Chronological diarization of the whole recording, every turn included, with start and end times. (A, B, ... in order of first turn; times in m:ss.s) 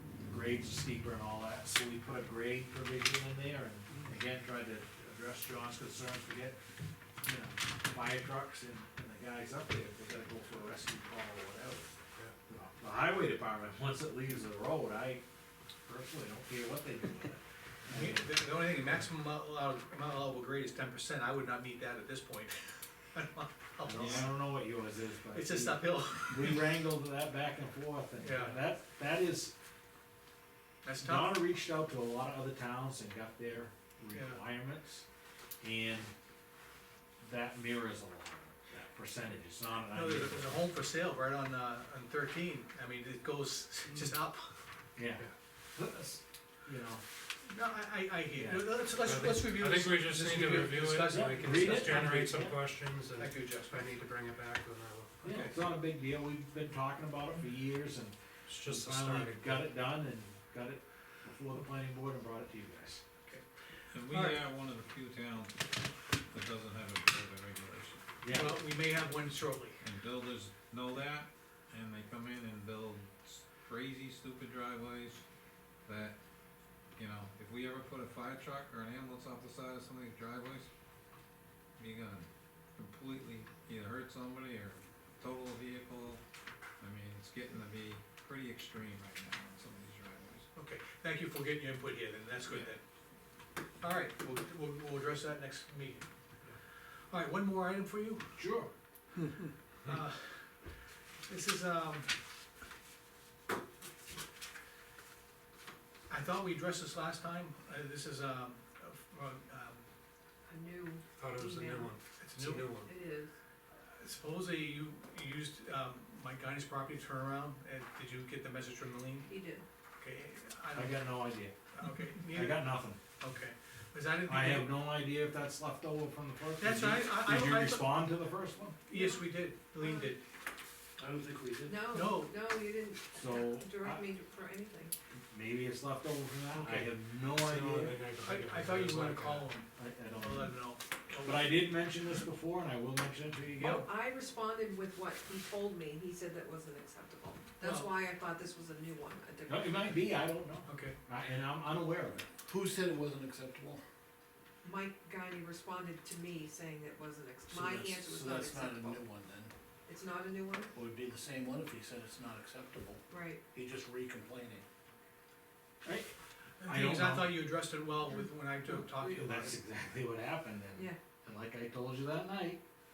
0:00.2-0:06.6 A
0:07.2-0:12.0 A
0:12.5-0:15.2 A
0:15.9-0:18.2 A
0:17.9-0:24.3 B
0:23.8-0:29.5 A
0:25.3-0:26.8 B
0:28.2-0:28.6 B
0:30.8-0:31.4 B
0:31.0-0:35.0 A
0:34.1-0:34.4 B
0:35.6-0:36.1 A
0:37.2-0:40.7 A
0:39.9-0:44.6 B
0:45.0-0:47.0 A
0:47.4-0:52.2 B
0:48.3-0:48.7 A
0:48.9-0:55.2 C
0:51.1-0:52.6 A
0:53.2-0:54.0 B
0:55.2-1:03.0 A
0:58.5-0:59.6 C
1:03.9-1:05.6 D
1:04.1-1:04.4 B
1:06.3-1:08.0 D
1:08.2-1:08.6 A
1:08.3-1:09.8 B
1:09.8-1:15.2 D
1:15.8-1:16.2 D
1:16.9-1:20.7 D
1:21.8-1:26.2 D
1:26.8-1:30.5 D
1:30.6-1:32.8 B
1:33.8-1:36.1 B
1:37.1-1:38.3 B
1:38.4-1:38.7 A
1:39.8-1:40.6 B
1:41.2-1:42.1 B
1:46.1-1:49.8 B
1:50.5-1:51.9 E
1:51.1-1:52.9 C
1:52.2-1:52.8 B
1:52.8-1:53.3 E
1:53.9-1:59.3 B
1:59.3-1:59.6 E
2:00.0-2:01.1 B
2:00.7-2:01.6 A
2:01.7-2:04.8 B
2:02.2-2:03.0 A
2:04.2-2:08.8 A
2:06.6-2:08.1 B
2:08.9-2:10.2 B
2:08.9-2:09.3 E
2:09.8-2:10.1 E
2:11.0-2:11.9 F
2:11.7-2:14.9 E
2:11.9-2:12.4 B
2:13.1-2:14.0 A
2:15.3-2:18.0 A
2:16.6-2:19.5 C
2:18.2-2:21.6 B
2:19.8-2:20.6 A
2:21.2-2:23.9 A
2:23.6-2:23.9 B
2:23.8-2:29.9 E
2:27.6-2:27.9 B
2:29.5-2:32.3 A
2:30.7-2:31.0 B
2:32.5-2:33.8 F
2:34.6-2:39.0 E
2:37.5-2:39.5 F
2:39.9-2:40.7 E
2:40.7-2:44.6 F
2:43.1-2:43.4 E
2:45.8-2:47.4 A
2:46.6-2:49.6 B
2:48.6-2:49.0 E
2:49.0-2:52.6 A